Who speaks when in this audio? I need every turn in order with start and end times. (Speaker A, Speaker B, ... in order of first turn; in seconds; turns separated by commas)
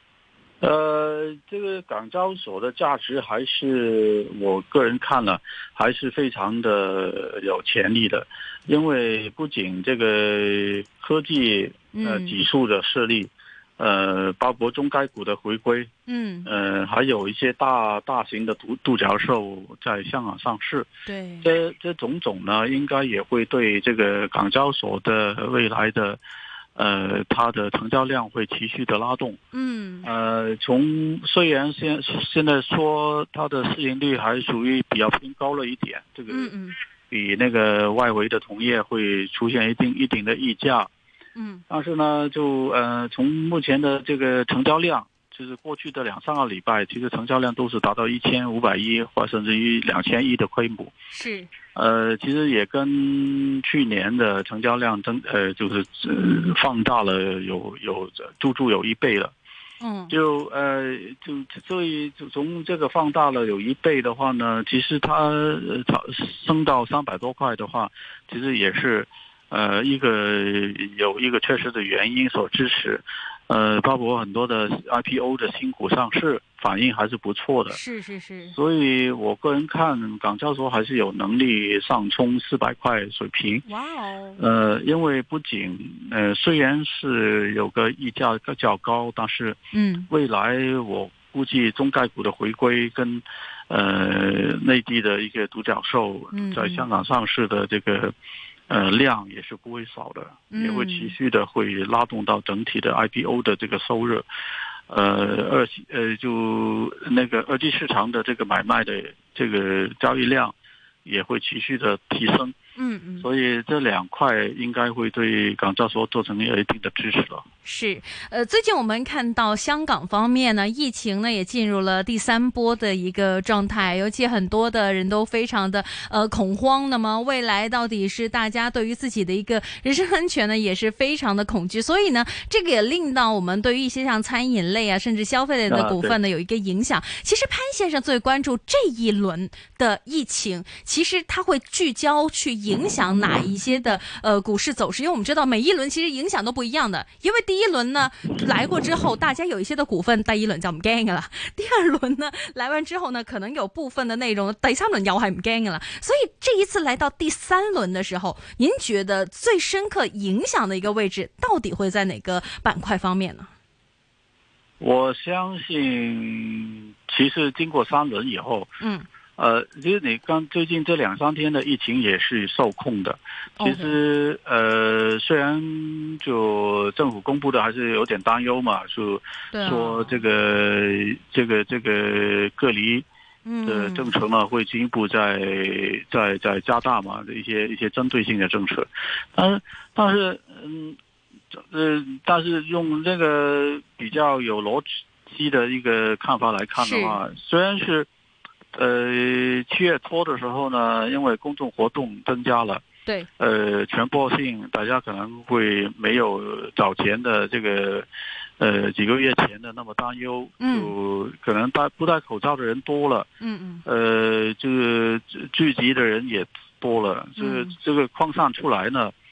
Speaker A: 0.6-15.9, Speaker B: 11.9-12.3, Speaker B: 16.1-16.5, Speaker A: 16.4-20.9, Speaker B: 21.1-21.5, Speaker A: 21.4-26.2, Speaker A: 26.8-29.4, Speaker B: 29.5-30.1, Speaker A: 30.0-36.5, Speaker B: 36.3-36.8, Speaker A: 37.1-40.9, Speaker B: 41.4-41.6, Speaker A: 41.7-50.9, Speaker B: 51.1-51.5, Speaker A: 51.7-59.3, Speaker B: 59.8-60.1, Speaker A: 60.1-77.8, Speaker B: 77.7-78.6, Speaker A: 78.5-83.7, Speaker B: 83.7-84.4, Speaker A: 84.4-89.6, Speaker B: 89.7-90.1, Speaker A: 90.1-98.1, Speaker B: 96.3-96.9, Speaker A: 98.7-104.3, Speaker B: 100.5-101.2, Speaker A: 104.9-112.5, Speaker B: 112.8-113.3, Speaker A: 113.2-117.4, Speaker B: 117.7-163.5, Speaker A: 135.7-136.2, Speaker A: 164.8-168.7, Speaker B: 168.8-169.1, Speaker A: 169.4-183.1, Speaker B: 173.6-174.0, Speaker B: 179.5-180.2, Speaker B: 183.5-184.1, Speaker A: 183.7-191.0, Speaker A: 191.5-198.1, Speaker B: 196.8-197.2, Speaker A: 198.8-202.8, Speaker A: 203.4-208.1, Speaker A: 208.6-213.3, Speaker B: 210.6-210.9, Speaker B: 213.4-213.8, Speaker A: 213.8-219.1, Speaker B: 217.4-217.8